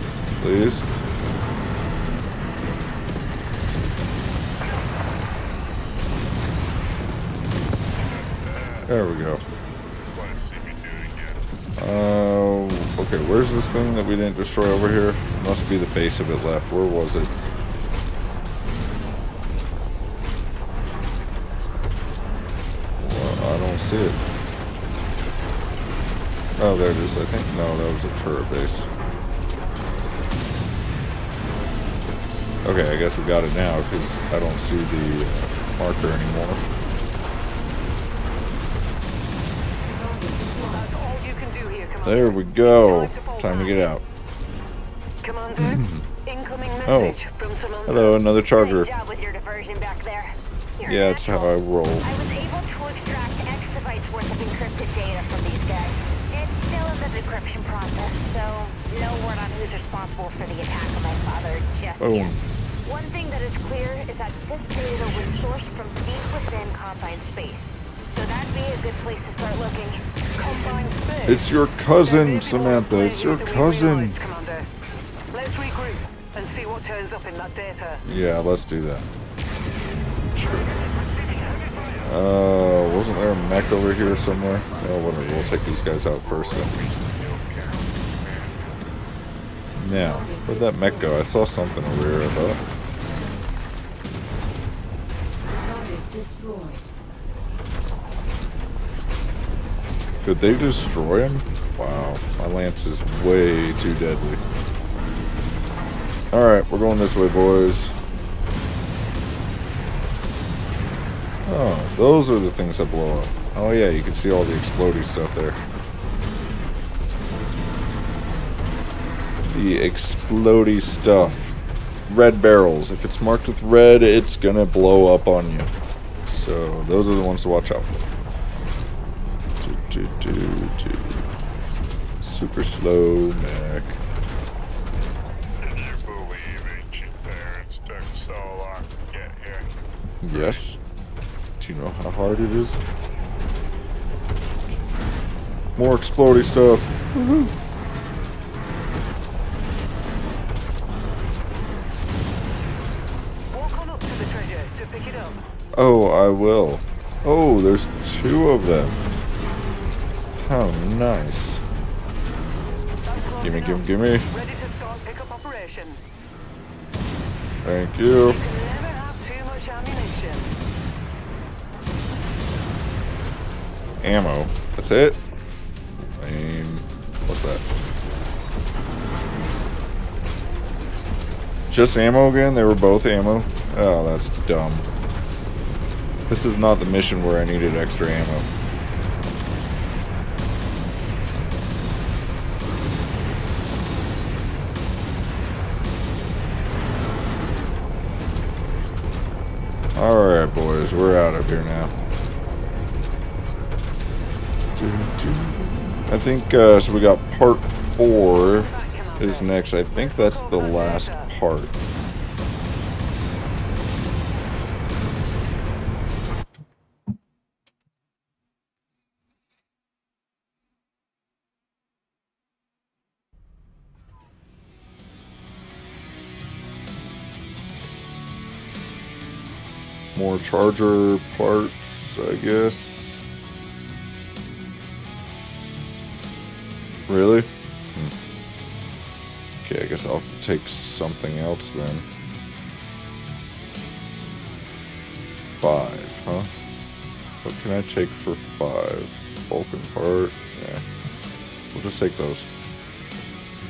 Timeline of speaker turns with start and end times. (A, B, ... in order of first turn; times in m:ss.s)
0:00.4-0:00.9 A
0:08.0-0:08.9 B
0:08.9-0:09.4 A
0:10.1-0:11.4 B
0:11.8-0:17.3 A
0:23.0-0:24.2 A
0:26.6-0:28.9 A
0:32.6-0:36.6 A
0:40.7-0:43.9 C
0:42.0-0:44.0 A
0:45.2-0:48.2 C
0:45.6-0:46.0 A
0:46.8-0:47.2 A
0:47.8-0:48.9 A
0:48.3-1:10.0 D
0:50.8-0:52.1 A
1:02.0-1:02.4 A
1:10.4-1:14.7 C
1:11.2-1:14.2 A
1:15.3-1:18.0 C
1:18.0-1:19.1 A
1:20.3-1:20.7 A
1:22.0-1:26.7 A
1:24.0-1:28.8 B
1:29.8-1:32.6 A
1:40.2-1:44.4 A
1:46.3-1:47.9 A
1:51.4-1:55.6 A
1:59.4-2:01.5 A
2:02.1-2:05.7 A
2:06.2-2:08.1 A
2:09.6-2:11.3 A
2:12.2-2:14.0 A
2:15.6-2:19.7 B
2:20.2-2:20.8 A
2:20.3-2:20.6 B
2:21.6-2:22.8 A
2:25.8-2:27.5 A
2:33.5-2:35.4 C
2:35.7-2:39.0 A
2:40.4-2:41.6 A
2:43.0-2:46.0 C
2:43.4-2:44.3 A
2:47.6-2:48.4 A
2:48.2-2:50.5 C
2:54.0-2:55.2 A
2:56.2-2:57.6 A
3:01.7-3:04.9 A
3:06.3-3:08.5 A
3:20.0-3:21.9 A
3:24.8-3:31.7 A
3:28.3-3:31.3 C
3:50.1-3:53.3 A
3:57.1-3:58.1 A
3:59.6-4:02.0 A
4:05.6-4:06.5 A
4:07.4-4:10.8 A
4:11.7-4:12.5 A